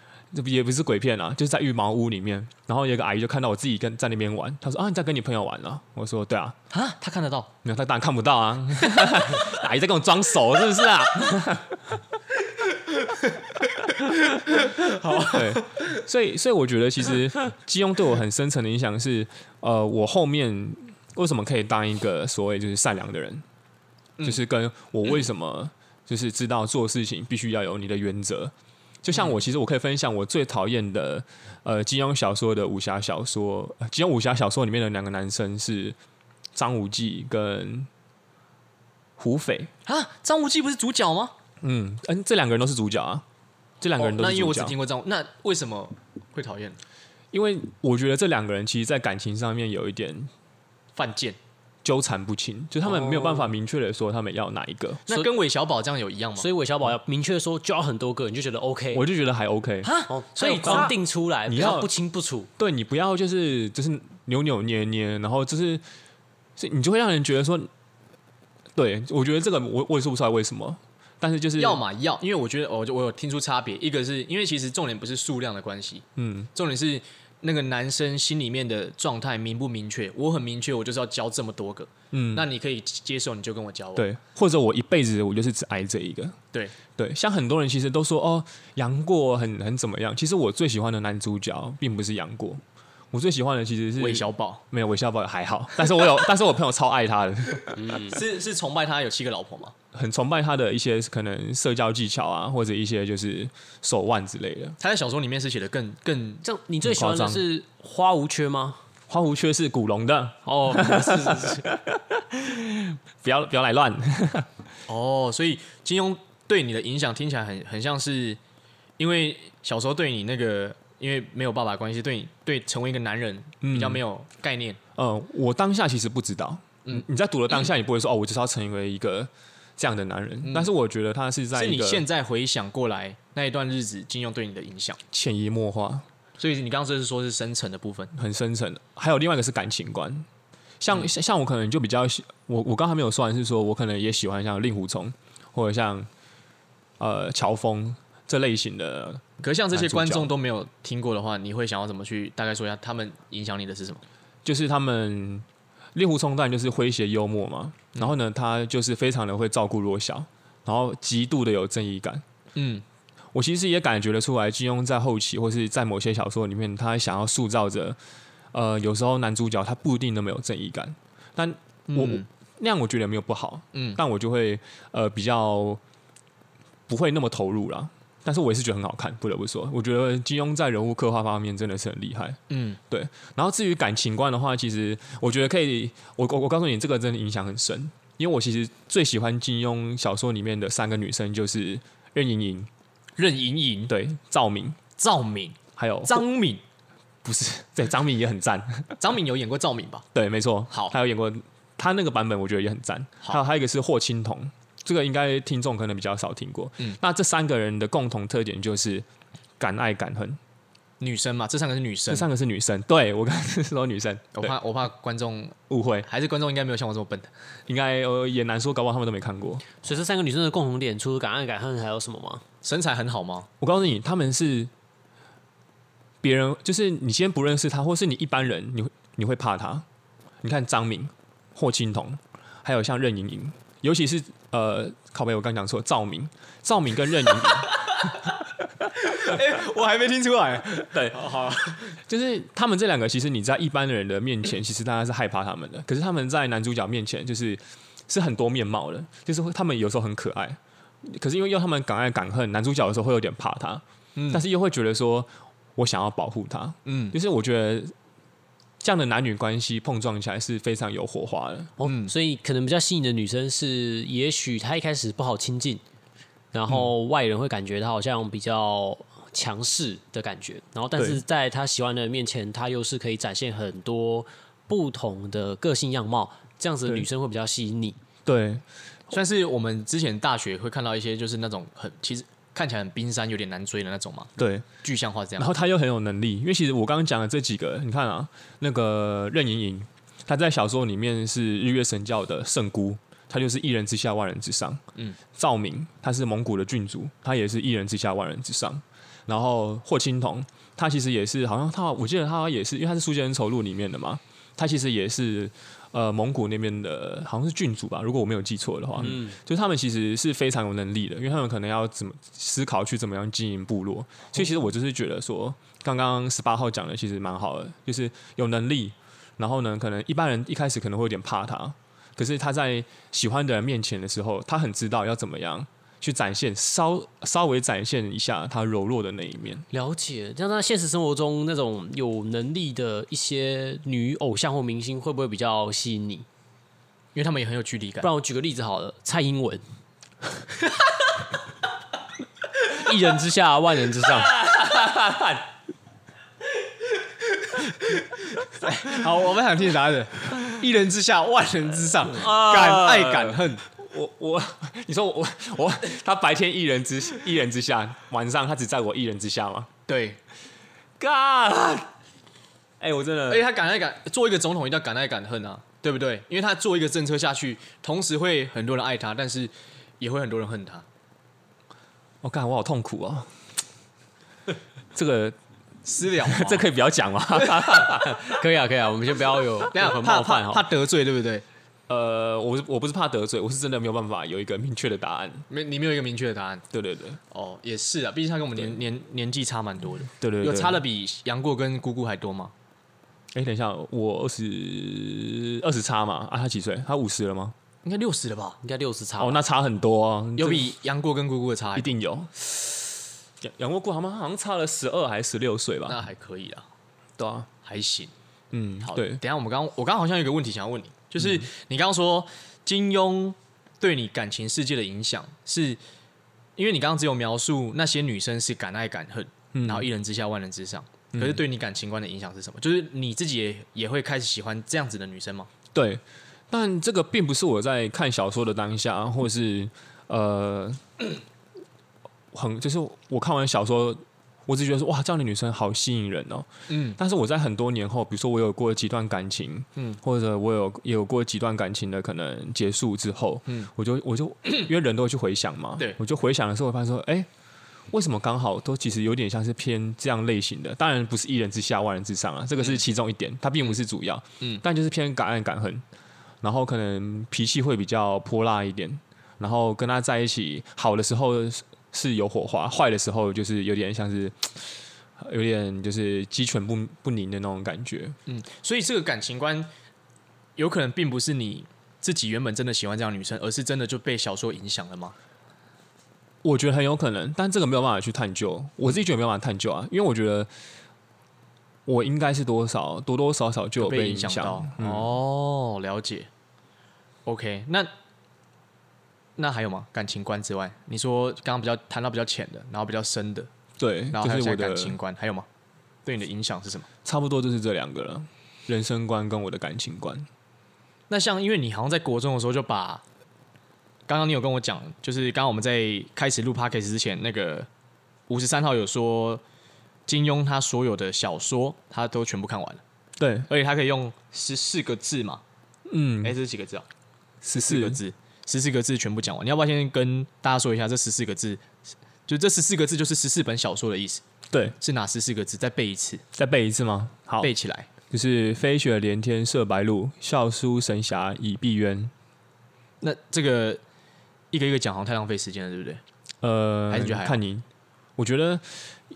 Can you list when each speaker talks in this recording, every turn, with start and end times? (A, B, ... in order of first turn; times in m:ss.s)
0:00.3-0:06.6 A
0:06.7-0:07.5 B
0:07.6-0:12.0 A
0:13.9-0:15.8 B
0:15.1-0:23.4 A
0:24.2-0:36.0 A
0:36.5-0:37.9 A
0:39.2-0:39.7 A
0:39.9-0:41.3 B
0:41.6-0:43.2 A
0:43.8-0:44.8 A
0:44.0-0:46.8 B
0:47.3-0:50.3 A
0:51.0-0:51.4 B
0:51.8-0:55.2 A
0:55.1-0:56.5 B
0:56.4-0:59.1 C
0:58.9-1:00.0 A
0:59.8-1:00.9 B
1:00.1-1:02.5 C
1:00.6-1:00.9 A
1:01.5-1:01.9 A
1:02.6-1:05.8 A
1:06.6-1:07.7 A
1:08.8-1:11.8 A
1:11.6-1:24.1 B
1:16.2-1:16.5 A
1:22.1-1:22.4 A
1:24.0-1:26.4 A
1:27.0-1:38.2 A
1:34.0-1:34.6 B
1:37.9-1:39.8 B
1:39.9-1:44.8 A
1:44.8-1:46.4 B
1:46.4-1:48.8 C
1:46.8-1:47.4 A
1:49.1-1:54.5 A
1:50.4-1:51.6 C
1:54.9-1:58.4 B
1:59.0-2:04.8 B
2:03.6-2:04.0 A
2:05.0-2:12.0 A
2:10.4-2:10.7 B
2:11.5-2:15.0 B
2:15.1-2:16.1 A
2:16.4-2:18.1 B
2:18.1-2:20.3 A
2:20.8-2:26.1 A
2:27.0-2:30.3 A
2:29.4-2:34.0 B
2:34.4-2:42.2 A
2:42.6-2:42.8 B
2:43.3-2:48.0 A
2:48.5-2:55.8 A
2:51.9-2:52.3 B
2:53.7-2:54.0 B
2:56.9-3:02.4 A
3:02.5-3:02.8 B
3:02.9-3:12.7 A
3:13.2-3:13.9 B
3:13.9-3:14.8 A
3:15.0-3:16.6 B
3:15.8-3:16.3 A
3:17.2-3:19.0 A
3:19.0-3:20.1 B
3:20.1-3:29.1 A
3:29.6-3:30.4 A
3:31.0-3:32.3 B
3:32.1-3:34.6 A
3:34.4-3:37.3 B
3:35.7-3:36.1 A
3:37.7-3:39.7 A
3:39.8-3:42.4 C
3:42.6-3:43.5 B
3:43.6-3:44.7 A
3:46.2-3:49.9 A
3:50.4-3:57.8 A
3:59.0-4:02.0 B
4:00.9-4:01.2 A
4:01.8-4:17.9 A
4:14.2-4:14.4 B
4:16.9-4:17.1 B
4:18.8-4:21.8 A
4:21.8-4:25.8 C
4:21.8-4:22.1 B
4:26.5-4:38.0 C
4:31.0-4:31.2 A
4:38.2-4:38.6 A
4:39.1-4:45.5 B
4:44.4-4:44.7 A
4:45.4-5:29.6 A
5:09.0-5:09.4 C
5:29.7-5:36.3 C
5:37.1-5:38.1 B
5:38.0-5:39.6 C
5:42.6-5:44.4 C
5:44.0-5:45.5 A
5:47.8-5:53.6 B
5:52.0-5:59.7 A
5:59.9-6:00.2 B
6:01.0-6:01.9 A
6:02.8-6:03.4 A
6:03.3-6:10.8 B
6:12.2-6:13.3 A
6:14.9-6:15.4 A
6:15.8-6:16.7 B
6:16.2-6:18.2 A
6:17.9-6:20.6 C
6:19.7-6:21.4 B
6:21.9-6:25.4 A
6:25.5-6:26.6 B
6:26.7-6:27.2 A
6:27.3-6:32.5 B
6:30.2-6:30.8 A
6:33.3-6:37.6 A
6:37.8-6:38.6 B
6:38.6-6:39.4 C
6:39.2-6:40.7 A
6:40.4-6:41.9 B
6:41.8-6:42.4 A
6:43.4-6:46.0 A
6:45.9-6:46.7 B
6:47.2-6:47.5 A
6:47.6-6:48.1 B
6:48.5-6:49.2 A
6:48.8-6:55.8 B
6:51.2-6:51.5 A
6:56.6-7:05.5 B
6:59.5-6:59.9 A
7:01.1-7:01.4 A
7:05.7-7:10.9 A
7:12.3-7:27.3 A
7:16.7-7:17.0 B
7:27.9-7:35.8 A
7:36.4-7:48.2 A
7:48.3-7:49.7 B
7:50.6-7:55.1 B
7:56.4-8:00.5 A
8:01.9-8:05.2 A
8:03.8-8:06.3 B
8:07.3-8:07.9 B
8:09.4-8:13.5 B
8:13.8-8:15.0 A
8:14.1-8:15.4 B
8:16.1-8:16.9 B
8:17.0-8:20.3 A
8:21.1-8:23.0 B
8:24.1-8:27.7 B
8:28.3-8:29.4 B
8:30.1-8:32.8 B
8:33.2-8:33.5 A
8:33.5-8:35.4 B
8:35.9-8:36.4 A
8:36.2-8:36.9 B
8:37.4-8:38.0 A
8:37.6-8:41.6 B
8:42.3-8:44.2 B
8:44.5-8:44.8 A
8:44.8-8:46.2 B
8:46.3-8:47.5 A
8:47.4-8:47.9 B
8:48.1-8:52.1 A
8:53.0-8:53.8 B
8:54.5-8:56.0 B
8:56.4-8:57.6 A
8:56.9-8:57.4 B
8:58.2-8:59.0 A